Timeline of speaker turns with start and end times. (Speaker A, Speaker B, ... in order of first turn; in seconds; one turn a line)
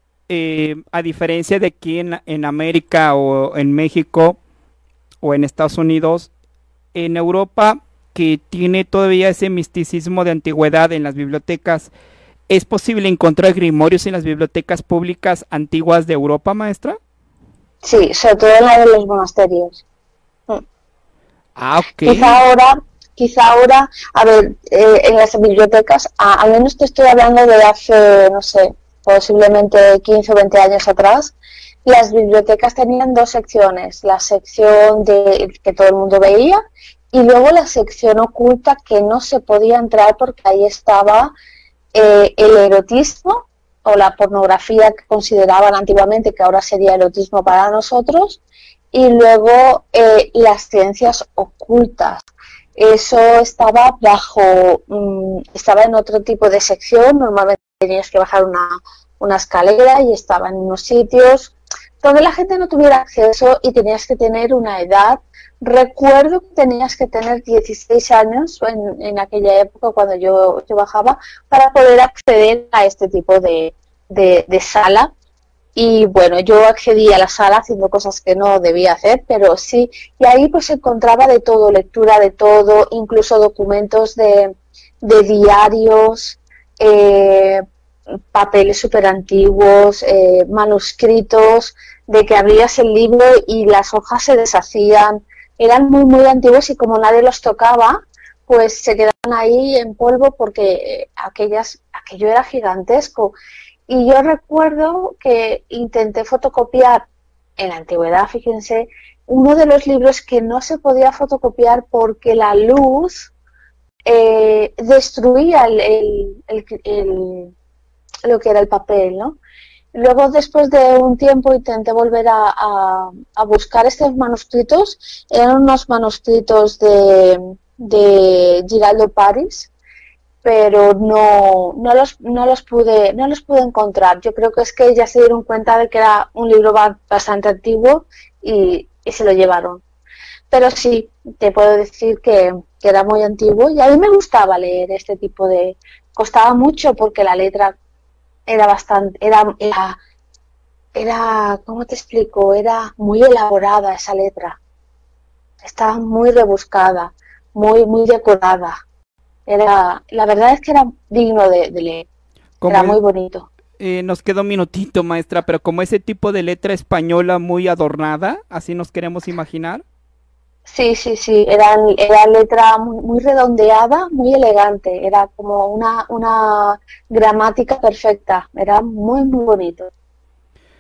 Speaker A: 0.3-4.4
Speaker A: 5.2-6.3
Speaker A: 6.9-11.9
Speaker A: 12.5-17.0
Speaker B: 17.8-19.8
Speaker A: 21.6-22.4
Speaker B: 22.1-31.3
Speaker B: 31.9-36.6
Speaker B: 37.1-41.3
Speaker B: 41.9-48.4
Speaker B: 48.9-52.2
Speaker B: 52.8-75.1
Speaker B: 75.7-87.6
Speaker B: 88.3-103.3
Speaker B: 103.9-107.0
Speaker B: 107.6-113.3
Speaker B: 114.1-117.5
Speaker B: 118.3-119.4
Speaker B: 119.9-129.7
Speaker B: 130.4-139.8
Speaker B: 140.5-147.8
Speaker B: 148.5-150.0
Speaker B: 150.9-154.6
Speaker B: 155.6-158.8
Speaker B: 159.5-162.1
Speaker A: 162.6-163.0
Speaker B: 162.7-163.5
Speaker A: 163.8-169.8
Speaker B: 170.7-179.9